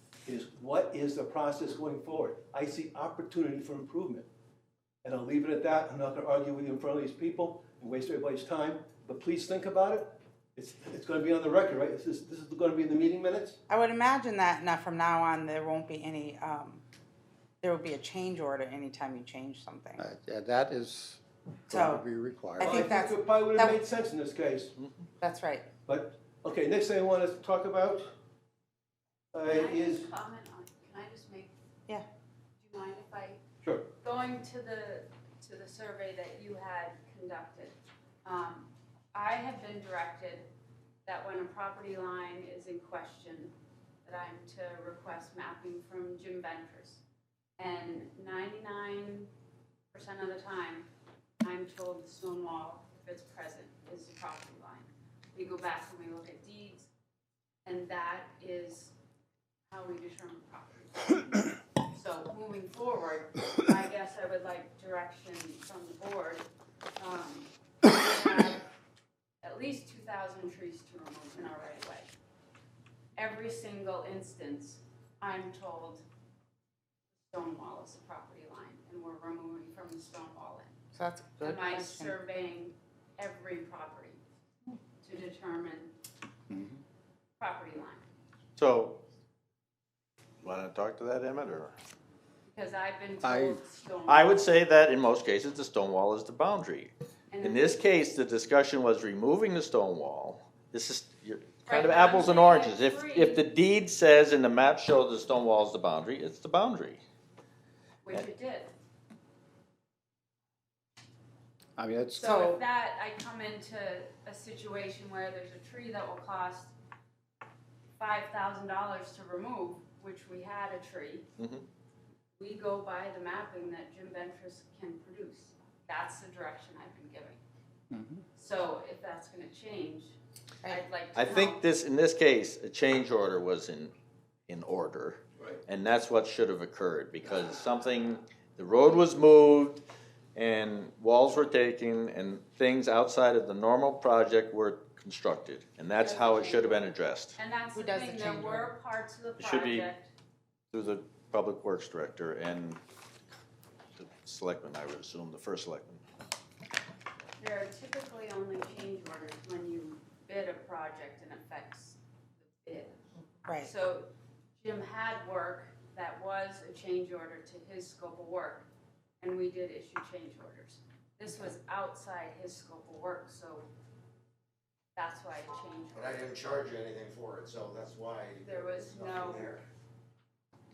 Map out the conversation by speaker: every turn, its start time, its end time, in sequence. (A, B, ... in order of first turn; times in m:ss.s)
0:00.2-0:04.3 A
0:05.0-0:13.6 A
0:13.7-0:16.8 B
0:17.6-0:20.0 B
0:20.0-0:22.9 C
0:21.7-0:22.0 B
0:22.6-0:23.8 B
0:22.6-0:24.8 A
0:25.2-0:25.6 B
0:25.8-0:28.1 A
0:29.3-0:30.1 A
0:29.5-0:31.5 D
0:32.6-0:33.4 D
0:33.6-0:33.9 A
0:34.0-0:40.5 D
0:41.0-0:47.0 D
0:47.6-0:49.3 D
0:49.9-0:50.9 D
0:51.4-0:56.9 D
0:57.6-0:58.9 D
0:59.7-1:06.4 D
1:07.0-1:08.6 D
1:09.4-1:12.1 D
1:13.2-1:16.0 D
1:17.3-1:20.7 D
1:20.9-1:22.2 B
1:21.4-1:24.2 D
1:25.0-1:25.9 D
1:26.5-1:26.8 C
1:27.4-1:28.0 D
1:28.6-1:29.0 E
1:30.4-1:31.7 E
1:32.4-1:34.5 D
1:33.2-1:33.6 C
1:34.1-1:47.0 E
1:37.3-1:37.8 D
1:41.6-1:43.4 D
1:48.0-1:48.7 D
1:51.8-1:52.3 C
1:52.2-1:56.7 D
1:52.2-1:52.6 B
1:58.0-2:01.2 D
2:01.4-2:01.6 E
2:02.4-2:07.4 D
2:07.9-2:08.2 C
2:08.3-2:10.1 D
2:10.6-2:10.9 B
2:10.6-2:11.6 D
2:11.1-2:13.9 E
2:14.5-2:19.8 E
2:20.3-2:27.4 E
2:25.9-2:26.8 D
2:27.4-2:30.1 D
2:27.7-2:28.7 B
2:29.4-2:29.9 E
2:30.7-2:32.8 E
2:34.0-2:36.0 E
2:37.4-2:43.0 D
2:43.4-2:43.7 B
2:43.6-2:48.7 D
2:49.2-2:53.7 D
2:51.3-2:51.5 B
2:55.0-2:56.2 D
2:55.9-2:59.6 F
2:58.4-2:59.6 D